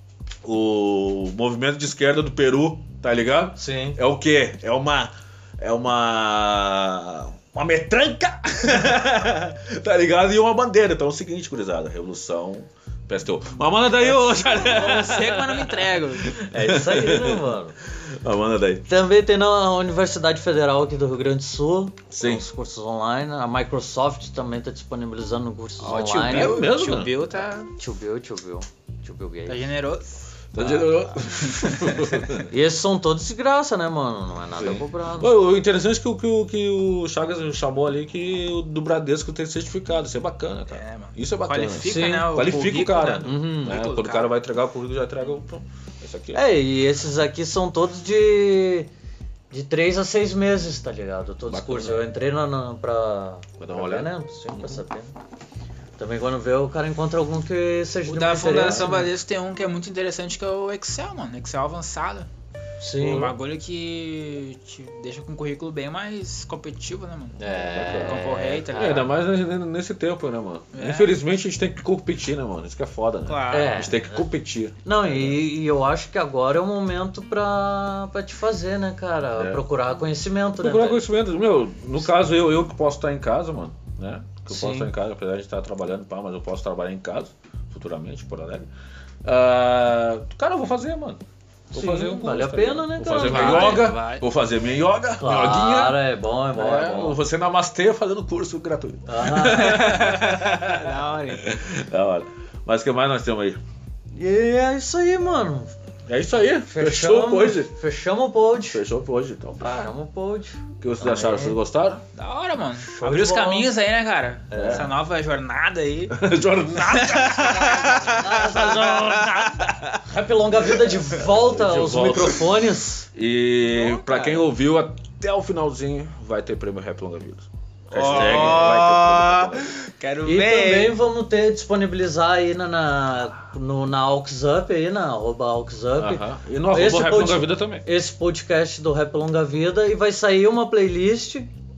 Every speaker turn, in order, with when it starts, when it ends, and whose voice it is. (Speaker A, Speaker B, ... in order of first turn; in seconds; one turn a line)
Speaker A: 0.4-18.9
Speaker B: 3.6-4.0
Speaker C: 14.1-16.3
Speaker B: 16.4-17.8
Speaker B: 18.9-26.7
Speaker A: 22.1-22.4
Speaker C: 25.8-27.7
Speaker A: 25.9-27.2
Speaker B: 27.8-29.7
Speaker C: 29.5-30.1
Speaker A: 30.5-32.5
Speaker B: 30.6-31.1
Speaker C: 31.3-32.2
Speaker B: 32.5-35.3
Speaker A: 34.6-46.4
Speaker C: 40.7-44.3
Speaker B: 41.8-42.3
Speaker B: 43.2-43.8
Speaker B: 46.3-48.9
Speaker B: 49.5-55.1
Speaker A: 51.5-52.0
Speaker A: 53.6-54.8
Speaker B: 56.0-59.1
Speaker C: 58.1-62.3
Speaker B: 62.8-63.3
Speaker A: 63.0-63.3
Speaker C: 63.0-69.1
Speaker B: 67.4-69.0
Speaker A: 67.6-75.4
Speaker C: 70.7-71.2
Speaker C: 73.3-73.9
Speaker B: 73.5-74.2
Speaker B: 74.8-81.0
Speaker A: 79.3-79.6
Speaker A: 80.6-88.7
Speaker B: 84.5-84.9
Speaker A: 89.2-91.2
Speaker B: 91.7-93.9
Speaker A: 91.7-96.0
Speaker C: 93.1-94.2
Speaker B: 95.2-97.2
Speaker A: 96.5-103.6
Speaker B: 99.1-100.1
Speaker C: 99.4-101.5
Speaker B: 104.2-105.7
Speaker A: 106.1-107.7
Speaker B: 106.7-108.8
Speaker A: 108.7-109.9
Speaker B: 109.6-111.6
Speaker A: 110.8-112.0
Speaker C: 112.1-116.2
Speaker B: 112.9-113.7
Speaker B: 114.5-114.9
Speaker A: 114.5-114.9
Speaker A: 116.1-119.9
Speaker C: 116.8-118.4
Speaker B: 117.4-119.2
Speaker C: 118.9-119.8
Speaker B: 120.0-123.1
Speaker A: 120.7-122.6
Speaker A: 123.1-129.8
Speaker C: 123.7-124.5
Speaker C: 127.9-130.9
Speaker B: 128.1-128.8
Speaker B: 130.2-141.5
Speaker A: 136.0-137.9